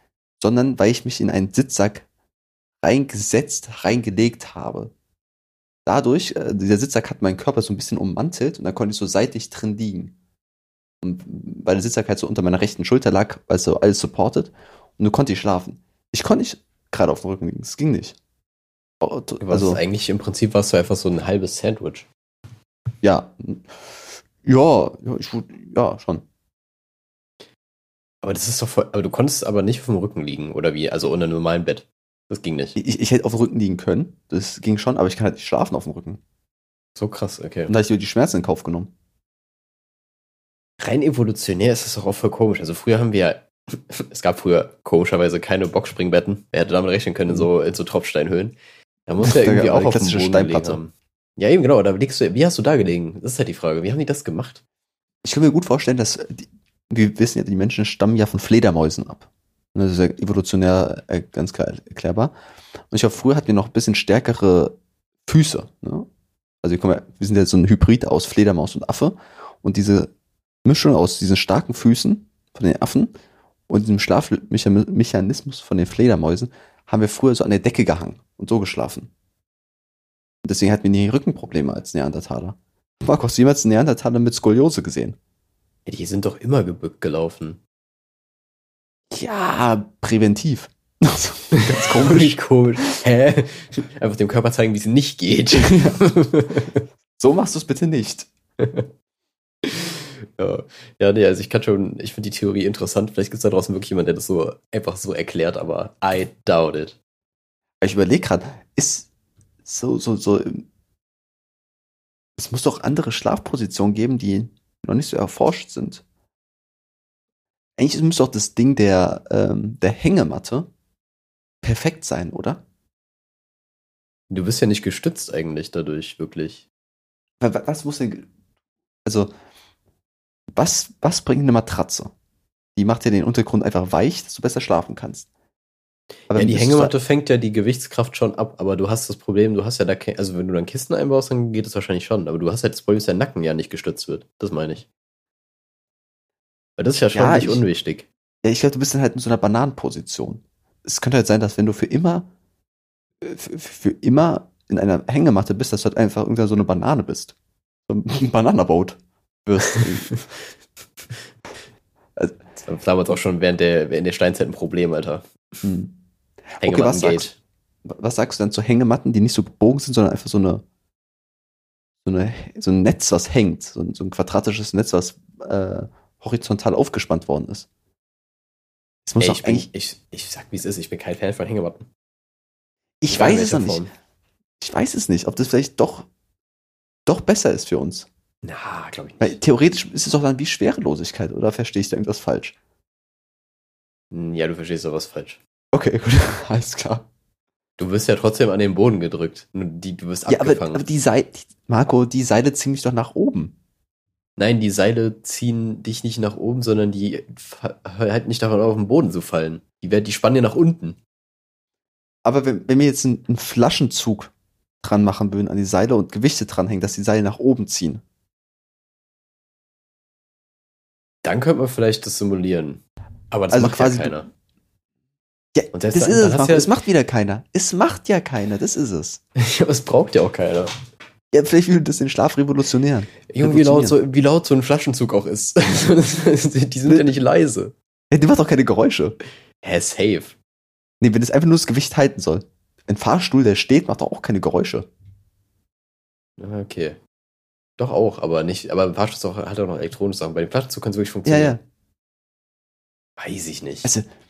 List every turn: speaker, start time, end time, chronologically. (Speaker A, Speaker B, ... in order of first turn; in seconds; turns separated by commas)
Speaker A: 0.4-2.0, Speaker A: 2.8-4.9, Speaker A: 5.8-10.1, Speaker A: 11.0-18.2, Speaker A: 19.0-19.8, Speaker B: 19.4-22.1, Speaker A: 23.0-23.7, Speaker A: 24.4-26.2, Speaker B: 28.2-32.8, Speaker A: 32.8-36.2, Speaker B: 37.0-37.7, Speaker A: 37.7-38.9, Speaker B: 40.8-54.6, Speaker A: 49.2-50.8, Speaker A: 55.2-62.3, Speaker A: 62.9-66.1, Speaker A: 66.6-70.1, Speaker A: 70.6-73.1, Speaker A: 73.7-79.1, Speaker A: 80.4-85.2, Speaker B: 85.8-87.6, Speaker A: 89.1-92.4, Speaker B: 91.7-96.8, Speaker A: 95.5-96.0, Speaker A: 97.2-98.3, Speaker B: 98.6-98.9, Speaker B: 99.6-107.0, Speaker A: 107.8-109.1, Speaker A: 109.6-110.6, Speaker A: 112.4-116.0, Speaker A: 117.8-120.7, Speaker A: 121.6-122.6, Speaker B: 124.3-126.6, Speaker A: 127.4-128.3, Speaker A: 129.0-129.3, Speaker A: 130.5-132.1, Speaker A: 132.8-135.3, Speaker A: 136.3-136.9, Speaker B: 136.3-144.8, Speaker B: 146.8-148.1, Speaker A: 147.1-147.6, Speaker A: 148.4-152.3, Speaker A: 153.2-157.3, Speaker A: 157.9-160.3, Speaker B: 162.6-165.2, Speaker A: 165.6-165.9, Speaker A: 166.6-167.3, Speaker B: 166.6-167.3, Speaker A: 167.8-170.6, Speaker A: 172.0-177.7, Speaker A: 179.1-179.7, Speaker B: 179.2-181.9, Speaker A: 183.0-183.8, Speaker B: 183.1-183.9, Speaker A: 184.6-186.1, Speaker A: 187.1-188.1, Speaker B: 188.4-189.4, Speaker A: 189.2-192.5, Speaker B: 194.1-195.4, Speaker A: 195.7-197.1, Speaker B: 197.8-200.8, Speaker A: 200.3-203.5, Speaker B: 204.4-211.0, Speaker A: 212.2-218.0, Speaker B: 221.2-224.3, Speaker A: 223.5-224.2, Speaker A: 225.5-229.2, Speaker B: 225.7-226.7, Speaker B: 229.4-230.8, Speaker A: 231.3-234.0, Speaker B: 233.3-237.7, Speaker A: 238.1-239.2, Speaker B: 239.6-240.3, Speaker A: 241.0-244.9, Speaker B: 246.4-247.0, Speaker B: 247.8-251.6, Speaker A: 251.2-251.6, Speaker B: 253.2-253.9